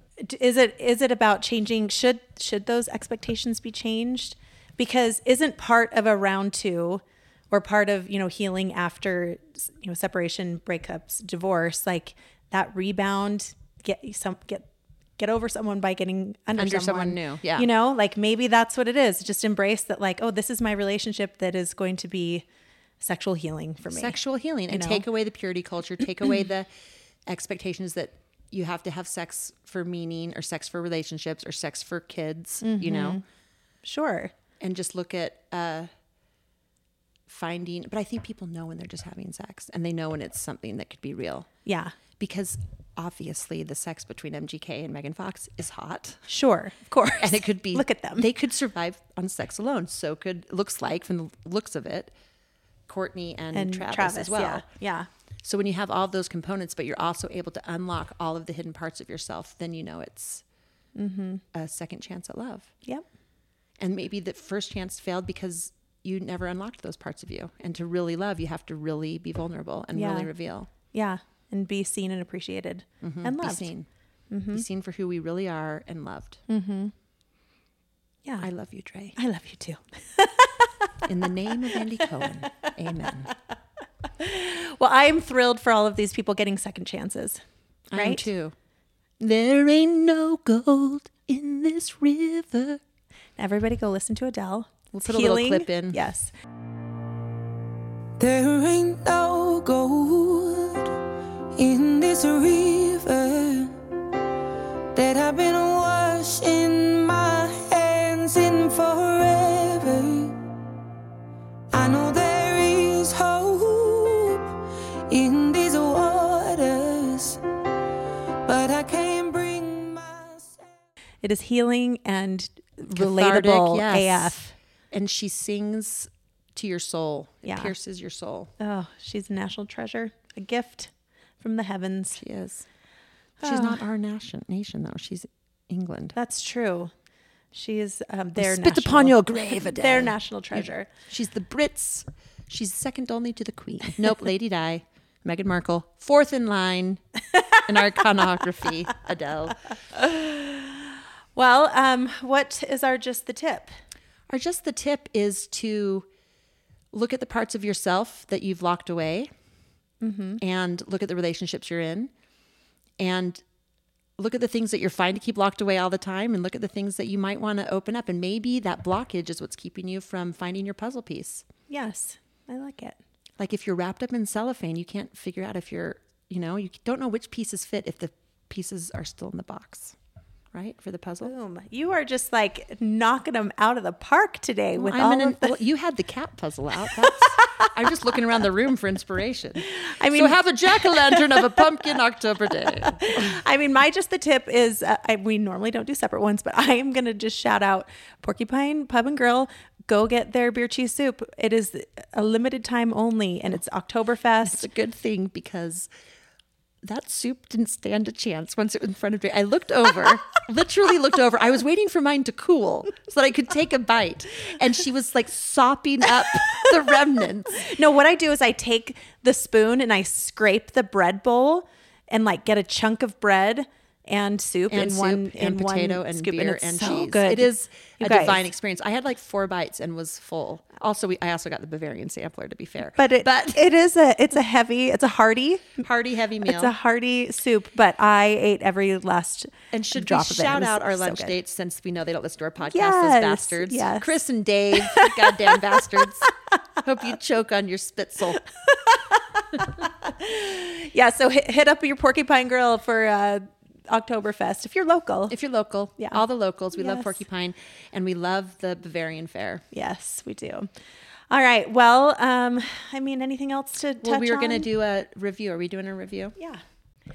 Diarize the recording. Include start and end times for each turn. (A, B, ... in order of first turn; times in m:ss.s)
0:00.2-0:22.4 A
0:16.6-0:17.7 B
0:23.0-0:24.1 A
0:23.8-0:26.7 B
0:24.7-0:25.0 A
0:27.3-0:33.2 B
0:32.6-0:33.2 A
0:33.8-0:34.3 A
0:34.6-0:35.9 B
0:37.3-0:41.5 B
0:41.6-0:42.0 A
0:42.2-0:46.3 B
0:46.3-0:48.3 A
0:47.2-0:52.1 B
0:52.9-0:54.6 B
0:53.5-0:55.1 A
0:55.4-1:00.4 B
1:01.0-1:01.4 A
1:01.5-1:02.7 B
1:03.8-1:10.7 B
1:09.9-1:10.3 A
1:10.8-1:13.7 A
1:13.0-1:13.9 B
1:14.3-1:14.6 A
1:14.5-1:16.4 B
1:16.5-1:16.9 A
1:18.4-1:19.2 B
1:19.2-1:20.7 A
1:21.0-1:23.3 B
1:24.2-1:27.4 A
1:27.9-1:28.5 B
1:27.9-1:28.2 A
1:29.2-1:32.8 B
1:33.4-1:36.3 A
1:34.9-1:36.0 B
1:38.2-1:41.0 C
1:41.6-1:43.7 C
1:44.9-1:50.3 C
1:51.7-1:54.6 C
1:55.1-1:57.4 C
1:58.4-2:00.6 C
2:01.2-2:04.5 A
2:02.9-2:08.5 B
2:07.4-2:07.7 A
2:08.6-2:12.2 A
2:12.2-2:12.6 B
2:13.4-2:16.1 B
2:13.4-2:13.8 A
2:16.1-2:16.9 A
2:17.5-2:20.9 A
2:18.4-2:27.0 B
2:27.6-2:29.7 B
2:30.0-2:33.7 A
2:34.3-2:36.1 B
2:36.9-2:39.3 B
2:40.0-2:40.4 A
2:40.4-2:42.1 B
2:43.0-2:43.4 B
2:44.2-2:51.4 B
2:51.7-2:53.0 A
2:53.4-3:00.0 B
3:00.5-3:01.3 B
3:01.2-3:05.6 A
3:04.8-3:13.3 B
3:07.0-3:07.7 A
3:09.6-3:11.6 A
3:12.8-3:24.6 A
3:24.4-3:25.9 B
3:26.8-3:37.7 B
3:37.6-3:48.4 A
3:44.7-3:53.6 B
3:53.0-3:55.8 A
3:55.8-3:56.7 B
3:56.4-4:01.4 A
3:59.7-4:08.4 B
4:02.6-4:04.2 A
4:04.8-4:05.5 A
4:08.7-4:15.3 A
4:15.3-4:19.6 B
4:16.7-4:17.2 A
4:19.7-4:20.7 A
4:21.3-4:24.7 A
4:24.0-4:26.4 B
4:26.4-4:26.6 A